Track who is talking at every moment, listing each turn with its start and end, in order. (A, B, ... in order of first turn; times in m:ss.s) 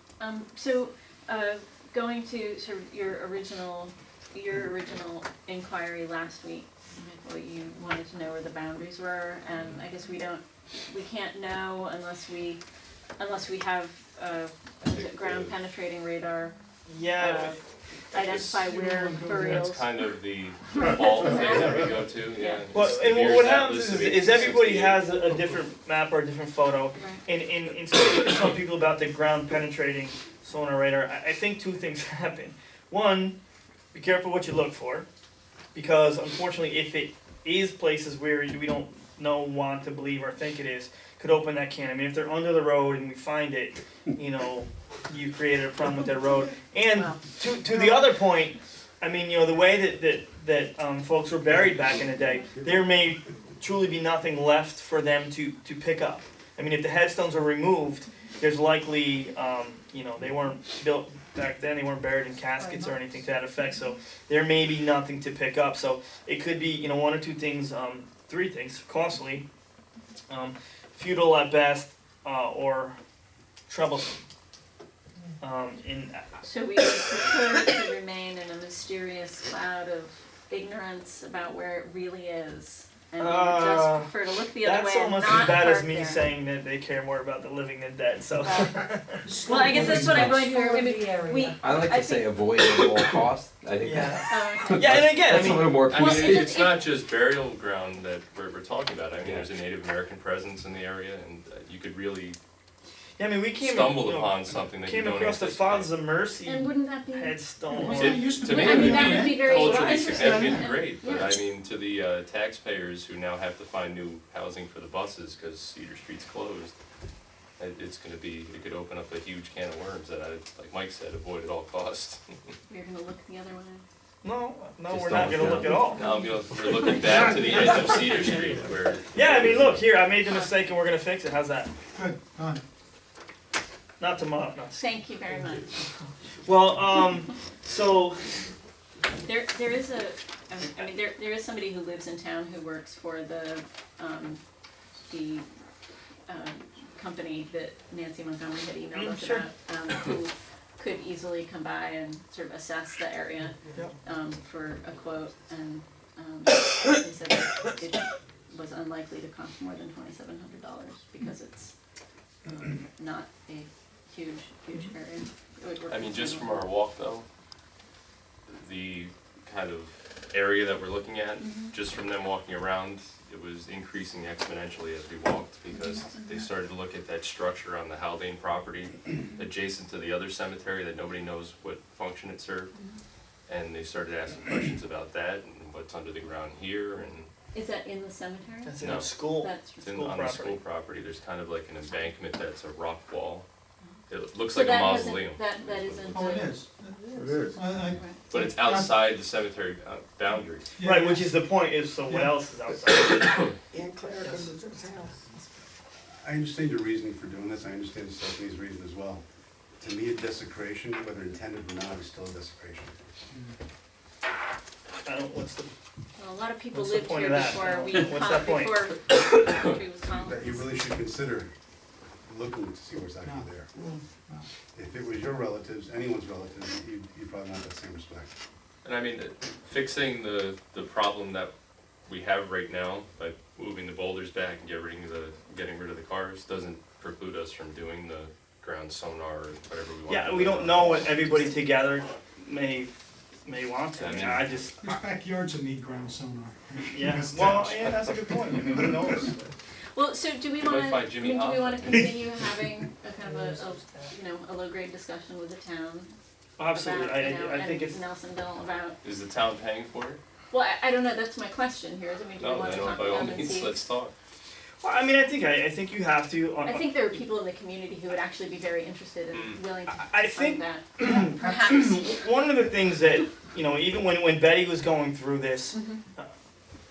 0:00.2-0:12.6 A
0:13.2-0:16.6 A
0:14.9-0:15.6 B
0:16.9-0:17.6 C
0:17.2-0:17.6 A
0:18.1-0:20.0 A
0:18.2-0:18.6 B
0:18.5-0:19.7 D
0:19.3-0:25.0 B
0:20.8-0:22.6 A
0:22.7-0:33.4 C
0:27.0-0:27.2 A
0:33.9-0:35.1 C
0:35.8-1:09.4 C
0:46.9-0:48.1 A
1:02.4-1:03.3 E
1:10.3-1:13.0 C
1:13.7-1:14.2 C
1:15.4-1:16.8 C
1:16.4-1:26.3 A
1:23.2-1:30.3 C
1:28.4-1:28.8 A
1:29.3-1:31.8 E
1:29.4-1:32.3 A
1:30.0-1:30.3 F
1:31.6-1:36.5 F
1:32.6-1:33.0 C
1:33.8-1:35.7 C
1:34.3-1:36.9 A
1:35.9-1:42.4 B
1:39.2-1:39.5 F
1:43.2-1:49.2 C
1:43.6-1:46.0 B
1:46.4-1:51.5 A
1:47.7-1:50.8 D
1:47.9-1:56.8 B
1:57.6-2:02.5 B
2:02.7-2:03.8 A
2:04.2-2:06.0 C
2:04.9-2:05.9 F
2:05.8-2:08.7 A
2:05.9-2:09.9 B
2:09.1-2:11.7 C
2:10.3-2:10.5 A
2:11.9-2:12.6 D
2:14.0-2:14.9 C
2:14.8-2:15.7 A
2:16.4-2:18.4 C
2:19.2-2:24.4 A
2:25.1-2:25.5 A
2:26.3-2:41.7 A
2:28.9-2:29.5 C
2:42.4-2:46.7 A
2:45.9-2:47.3 B
2:48.5-3:02.7 B
2:51.4-2:51.7 A
2:55.7-2:56.5 A
3:02.7-3:03.0 A
3:03.5-3:07.3 B
3:07.5-3:09.9 A
3:08.6-3:10.6 C
3:08.8-3:09.3 B
3:09.8-3:13.5 B
3:14.1-3:16.2 B
3:14.5-3:16.6 A
3:16.1-3:19.1 D
3:17.1-3:17.6 E
3:17.2-3:17.5 G
3:17.8-3:18.2 A
3:18.3-3:20.7 B
3:20.8-3:21.3 D
3:20.8-3:23.5 C
3:22.1-3:22.4 D
3:23.7-3:25.2 E
3:24.2-3:24.5 C
3:26.1-3:29.2 G
3:29.8-3:33.0 G
3:35.0-3:35.7 C
3:36.2-3:40.8 A
3:36.7-3:38.8 C
3:39.2-3:39.8 B
3:40.1-3:41.5 G
3:42.2-3:43.7 G
3:43.2-3:43.6 D
3:44.7-3:48.3 G
3:48.8-3:51.5 B
3:52.1-4:01.4 B
4:00.1-4:03.0 C
4:03.5-4:04.8 C
4:04.0-4:04.7 B
4:04.8-4:09.1 D
4:06.9-4:09.3 C
4:09.2-4:09.5 G
4:09.9-4:16.2 A
4:10.6-4:12.2 B
4:13.3-4:14.1 E
4:16.6-4:18.0 C
4:16.7-4:19.0 A
4:19.0-4:20.2 B
4:20.5-4:23.8 A
4:22.4-4:24.1 B
4:24.8-4:27.2 C
4:26.6-4:32.3 A
4:29.3-4:29.6 B
4:29.9-4:36.3 C
4:35.7-4:36.0 A